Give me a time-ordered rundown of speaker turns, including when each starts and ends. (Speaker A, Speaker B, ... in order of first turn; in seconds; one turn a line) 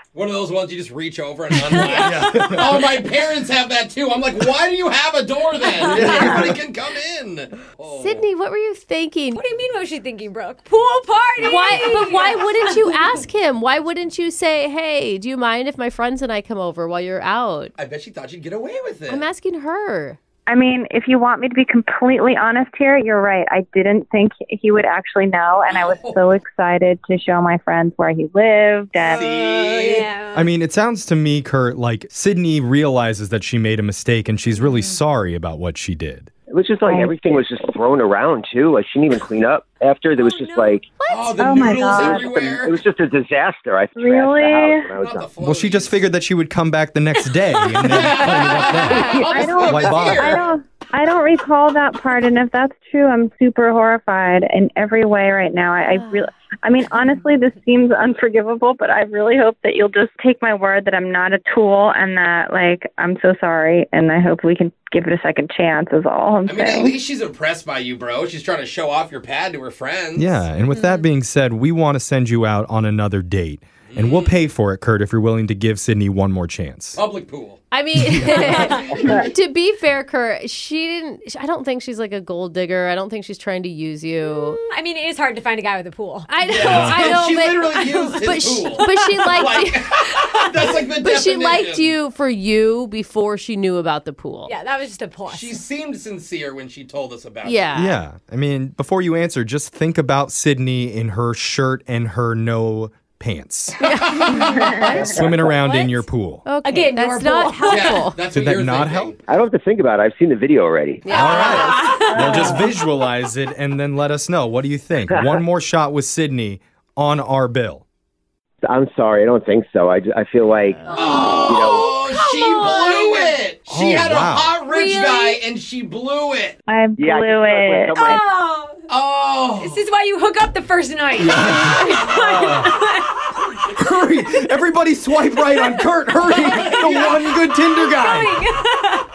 Speaker A: 0.1-8.3
Speaker B: 1.7-2.0
Speaker C: 1.9-2.8
Speaker B: 5.8-6.4
Speaker C: 5.9-6.5
Speaker D: 7.9-9.4
Speaker B: 9.3-12.8
Speaker D: 11.4-17.7
Speaker A: 17.8-19.2
Speaker D: 19.1-20.2
Speaker E: 20.5-29.5
Speaker A: 25.7-26.4
Speaker A: 29.0-30.1
Speaker B: 29.3-30.5
Speaker C: 30.3-36.3
Speaker F: 36.5-40.9
Speaker E: 36.9-37.4
Speaker B: 40.2-40.7
Speaker D: 41.0-41.4
Speaker A: 41.1-42.8
Speaker E: 41.4-42.3
Speaker F: 41.8-45.3
Speaker E: 44.0-44.9
Speaker A: 45.0-46.0
Speaker C: 45.4-50.4
Speaker B: 47.6-49.3
Speaker A: 47.9-50.5
Speaker E: 48.6-67.0
Speaker A: 66.5-70.5
Speaker C: 70.2-77.0
Speaker B: 70.7-71.1
Speaker A: 73.9-74.4
Speaker A: 77.0-77.6
Speaker D: 77.7-84.6
Speaker C: 78.0-78.7
Speaker B: 78.2-79.0
Speaker B: 84.5-86.3
Speaker D: 86.3-89.9
Speaker A: 86.5-91.9
Speaker C: 86.6-87.2
Speaker D: 91.0-94.5
Speaker B: 94.5-95.6
Speaker A: 95.3-97.7
Speaker D: 97.5-98.0
Speaker C: 97.8-103.8
Speaker D: 103.8-105.4
Speaker A: 104.0-104.7
Speaker B: 104.6-105.0
Speaker F: 104.9-105.5
Speaker C: 105.0-106.5
Speaker B: 105.6-106.0
Speaker D: 106.5-108.2
Speaker B: 106.6-108.1
Speaker A: 107.7-109.2
Speaker C: 108.3-109.1
Speaker F: 109.3-111.6
Speaker D: 111.0-112.5
Speaker C: 111.1-117.8
Speaker B: 111.2-112.6
Speaker E: 112.1-112.5
Speaker F: 118.6-122.0
Speaker A: 120.9-126.6
Speaker B: 121.0-121.3
Speaker B: 122.1-123.4
Speaker C: 123.7-124.5
Speaker B: 124.6-125.4
Speaker E: 126.7-128.2
Speaker F: 127.0-128.2
Speaker B: 128.0-128.8
Speaker A: 128.9-129.8
Speaker B: 129.6-133.2
Speaker C: 131.2-132.7
Speaker C: 133.8-138.4
Speaker B: 136.2-139.1
Speaker A: 136.6-137.1